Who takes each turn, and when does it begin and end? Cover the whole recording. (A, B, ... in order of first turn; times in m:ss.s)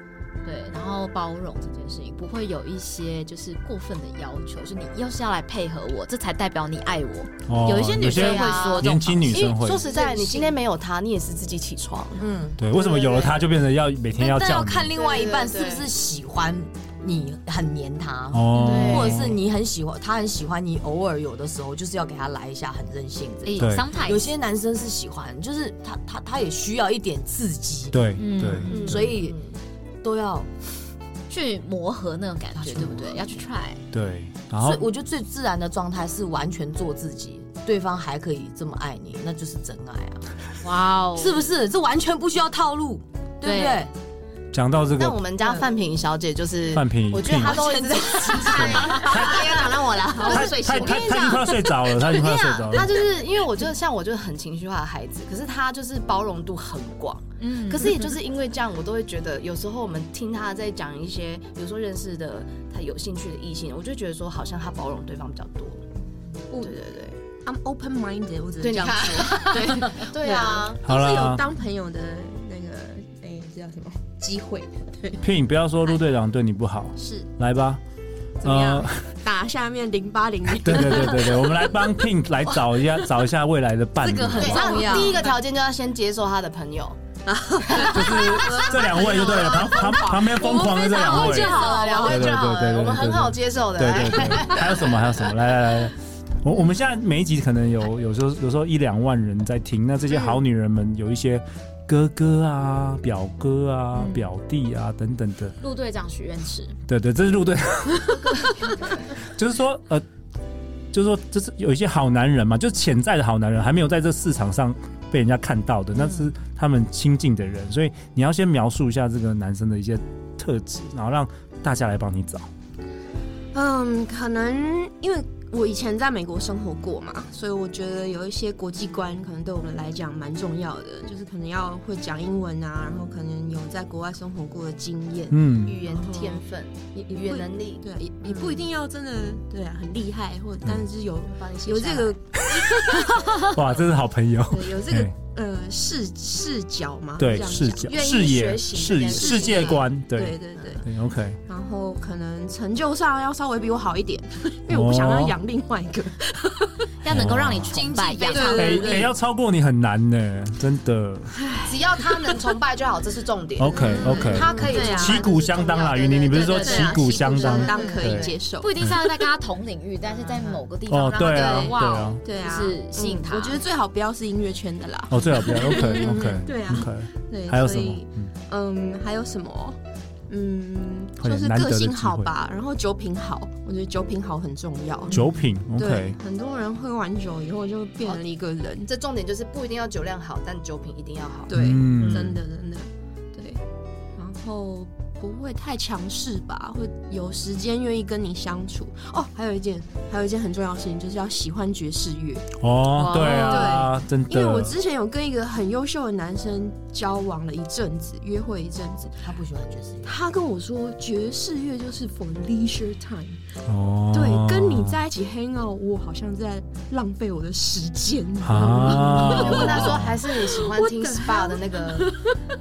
0:00.4-0:10.4 A
0:07.5-0:09.8 B
0:08.0-0:13.4 C
0:12.2-0:12.6 D
0:12.6-0:14.9 B
0:14.1-0:28.0 D
0:14.9-0:15.9 C
0:18.3-0:19.4 B
0:18.5-0:19.2 A
0:18.6-0:19.2 C
0:23.4-0:24.3 A
0:23.6-0:23.9 B
0:27.9-0:28.7 B
0:28.2-0:29.1 A
0:28.6-0:29.4 D
0:28.7-0:29.4 C
0:30.0-0:30.5 D
0:31.3-0:33.8 A
0:32.5-0:33.2 D
0:33.9-0:34.9 B
0:34.6-0:40.2 D
0:40.6-0:41.4 A
0:41.1-0:43.9 D
0:43.4-0:43.9 A
0:44.5-0:45.2 B
0:44.9-0:49.7 C
0:46.7-0:47.6 B
0:47.4-0:51.4 D
0:48.5-0:49.5 B
0:50.2-0:52.9 B
0:50.2-1:05.8 C
0:57.4-0:58.2 A
1:06.5-1:07.2 C
1:07.4-1:15.2 E
1:08.6-1:10.8 C
1:10.8-1:11.4 B
1:15.2-1:17.8 B
1:17.0-1:17.2 E
1:18.4-1:19.1 B
1:18.4-1:21.8 E
1:20.6-1:24.7 B
1:24.0-1:25.2 D
1:24.3-1:25.2 A
1:24.4-1:27.0 C
1:24.7-1:25.0 E
1:27.3-1:32.3 E
1:27.7-1:28.7 C
1:27.9-1:45.6 B
1:30.6-1:35.2 C
1:31.3-1:32.0 A
1:45.6-1:46.8 A
1:46.9-1:48.7 B
1:49.3-1:50.0 B
1:50.9-2:02.5 B
2:03.5-2:16.4 E
2:15.3-2:15.8 B
2:15.6-2:18.6 C
2:17.2-2:23.5 E
2:21.2-2:22.1 C
2:22.5-2:22.9 B
2:23.4-2:25.1 B
2:24.5-2:30.8 E
2:27.2-2:31.4 B
2:27.8-2:29.9 C
2:31.5-2:36.9 E
2:34.7-2:35.4 B
2:37.0-2:39.1 A
2:37.0-2:37.8 B
2:38.1-2:39.1 E
2:38.3-2:38.7 C
2:38.5-2:41.3 B
2:41.3-2:41.8 E
2:41.6-2:48.4 C
2:43.6-2:48.9 B
2:43.8-2:45.3 E
2:46.3-2:47.9 A
2:46.6-2:49.0 E
2:48.6-2:53.6 A
2:50.2-2:50.6 C
2:50.9-2:52.2 B
2:51.4-2:59.8 E
2:55.1-2:58.3 B
3:00.3-3:05.2 E
3:01.2-3:02.3 B
3:05.1-3:06.2 B
3:05.7-3:08.9 E
3:08.8-3:12.4 C
3:11.5-3:13.6 E
3:11.5-3:12.4 B
3:14.2-3:22.5 E
3:22.6-3:24.8 B
3:23.0-3:23.5 D
3:23.0-3:29.2 E
3:29.2-3:30.2 D
3:30.0-3:33.4 E
3:33.7-3:35.0 B
3:34.1-3:42.4 E
3:38.4-3:40.2 B
3:38.6-3:42.2 C